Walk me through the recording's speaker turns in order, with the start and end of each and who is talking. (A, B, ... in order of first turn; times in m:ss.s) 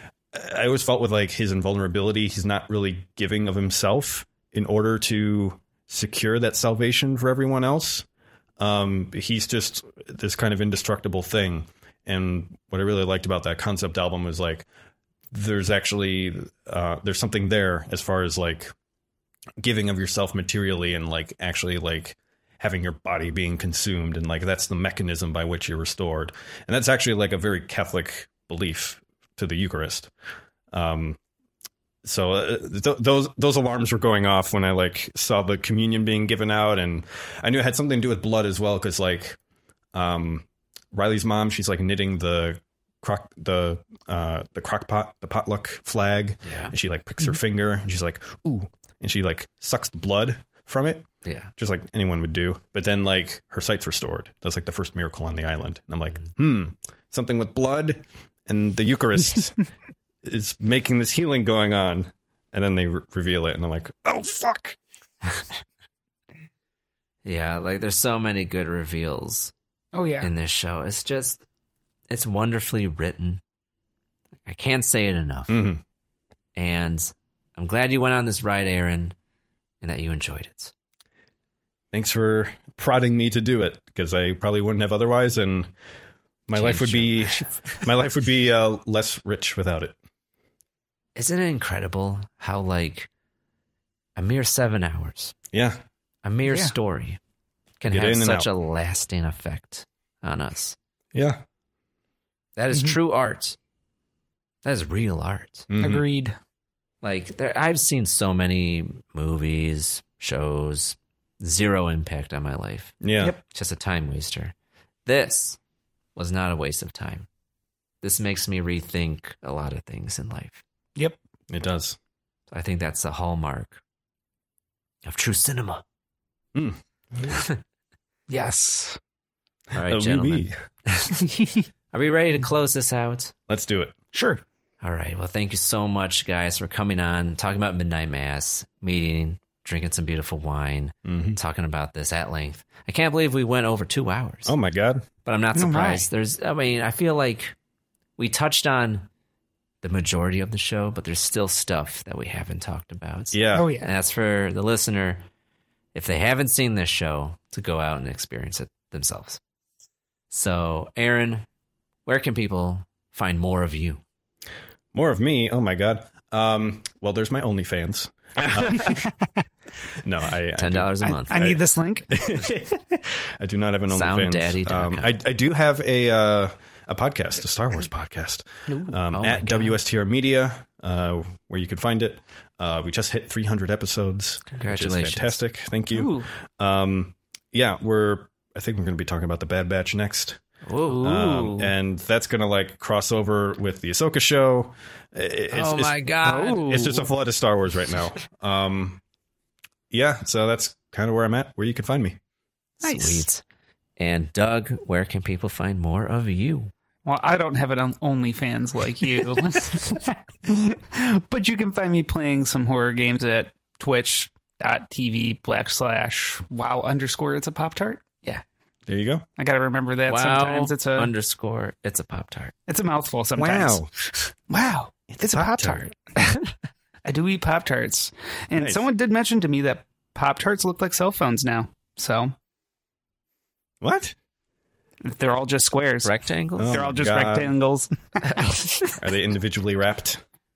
0:00.3-0:08.1 A
0:08.6-0:14.7 A
0:15.3-0:18.7 A
0:19.6-0:30.1 A
0:30.7-0:31.2 A
0:32.0-0:39.4 A
0:39.9-0:59.6 A
0:46.4-0:46.7 B
0:51.2-0:51.5 B
1:00.2-1:04.8 A
1:07.2-1:09.5 B
1:09.9-1:10.3 C
1:10.2-1:11.4 B
1:12.1-1:13.4 B
1:14.5-1:15.7 B
1:15.5-1:15.8 A
1:16.6-1:19.1 B
1:19.8-1:20.7 B
1:21.9-1:25.7 A
1:26.5-1:30.0 A
1:26.5-1:27.5 B
1:31.2-1:33.1 B
1:34.2-1:35.4 B
1:35.5-1:35.8 A
1:36.2-1:37.2 B
1:36.4-1:36.7 C
1:37.8-1:40.8 B
1:37.9-1:38.5 A
1:41.1-1:41.4 A
1:42.6-1:43.6 B
1:42.7-1:43.0 C
1:44.6-1:45.7 B
1:45.7-1:46.0 A
1:45.8-1:46.4 C
1:47.0-1:54.5 B
1:53.0-1:53.4 A
1:55.1-1:55.6 B
1:56.2-1:57.3 B
1:58.0-2:00.6 B
2:01.5-2:02.0 A
2:02.5-2:03.8 B
2:05.0-2:05.8 B
2:06.6-2:07.4 A
2:08.3-2:09.0 C
2:09.7-2:11.2 B
2:09.8-2:10.5 A
2:11.9-2:13.3 B
2:13.5-2:14.0 A
2:14.1-2:14.4 C
2:14.8-2:24.5 B
2:21.0-2:21.4 A
2:24.4-2:25.0 A
2:25.2-2:27.6 B
2:25.6-2:26.1 C
2:28.2-2:29.1 B
2:29.8-2:35.2 B
2:33.3-2:33.7 A
2:33.5-2:33.9 C
2:35.9-2:39.4 B
2:40.3-2:41.4 B
2:42.1-2:44.0 B
2:44.9-2:49.1 A
2:48.8-2:49.1 C
2:50.0-2:51.6 A
2:50.6-2:51.5 B
2:51.0-2:52.1 C
2:52.1-3:10.4 A
2:53.9-2:55.1 B
2:59.1-2:59.8 B
3:04.6-3:05.4 B
3:05.9-3:06.3 C
3:10.6-3:11.7 B
3:11.0-3:16.0 A
3:15.5-3:17.0 B
3:16.2-3:16.7 C
3:16.6-3:19.0 A
3:19.9-3:22.2 A
3:22.8-3:23.2 C
3:22.8-3:23.4 B
3:24.0-3:26.7 B
3:27.1-3:38.3 C
3:38.9-3:39.2 A
3:39.4-3:41.1 C
3:40.1-3:42.5 B
3:42.7-3:45.9 C
3:43.4-3:43.9 A
3:45.2-3:45.9 A
3:47.1-3:52.3 C
3:53.8-3:54.2 A
3:55.0-3:56.1 C
3:56.0-3:56.8 B
3:56.6-3:57.5 A
3:56.7-3:58.9 C
3:59.0-4:00.2 A